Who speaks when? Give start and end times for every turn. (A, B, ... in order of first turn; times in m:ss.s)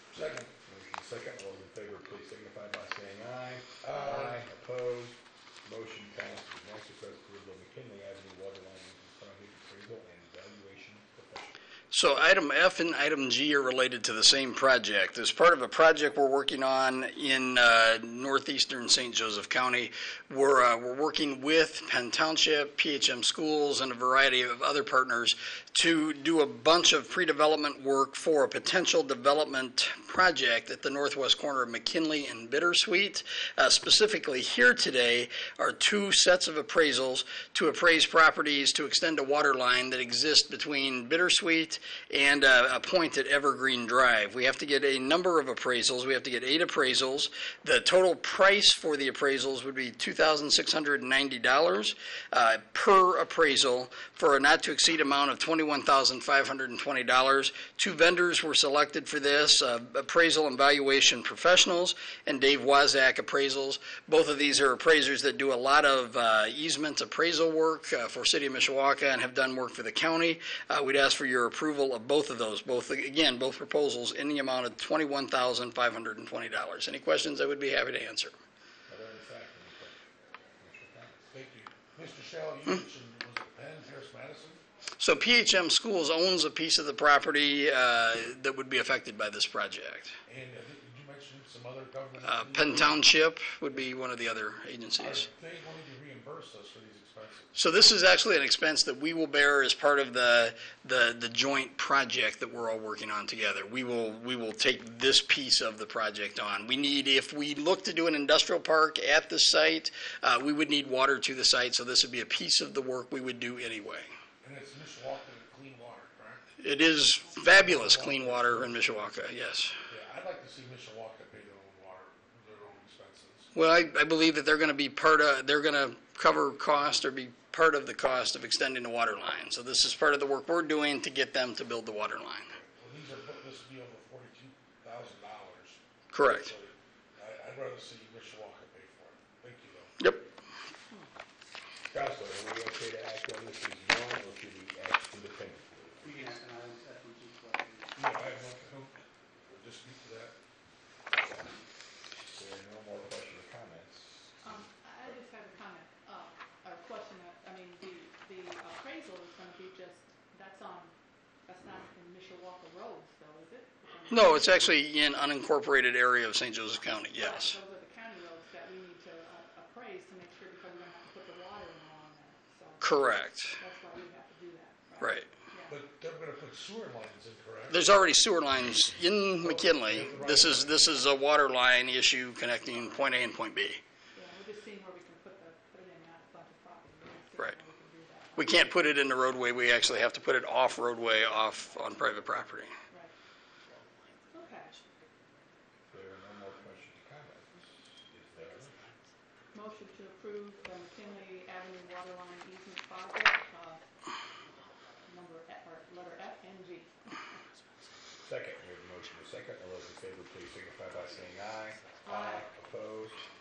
0:00.1-0:00.5 A
0:00.6-0:11.6 B
0:03.8-0:04.4 A
0:11.9-1:18.3 C
1:18.9-1:20.0 B
1:20.6-1:21.2 B
1:21.3-1:24.6 A
1:25.0-1:30.2 C
1:30.3-1:33.0 A
1:32.2-1:35.3 C
1:35.0-1:37.5 A
1:37.5-1:54.1 C
1:54.4-1:56.5 A
1:56.6-1:59.8 C
1:57.4-1:59.2 A
1:59.9-2:03.5 A
2:03.5-2:12.5 C
2:12.5-2:19.9 A
2:16.1-2:16.5 C
2:20.0-2:20.3 C
2:21.9-2:26.3 B
2:26.0-2:28.0 D
2:27.9-2:30.3 A
2:32.3-2:34.7 B
2:34.4-2:40.9 E
2:41.4-2:44.8 E
2:44.1-2:47.6 C
2:47.1-2:55.8 E
2:52.8-2:53.6 C
2:55.0-2:55.3 C
2:55.7-2:57.8 A
2:57.7-3:03.8 C
2:59.3-3:01.0 A
3:04.1-3:08.8 E
3:08.4-3:12.8 C
3:11.2-3:11.8 E
3:14.3-3:14.7 E
3:15.9-3:18.8 B
3:19.5-3:23.8 E
3:25.0-3:27.4 E
3:28.2-3:33.2 B
3:32.0-3:32.4 E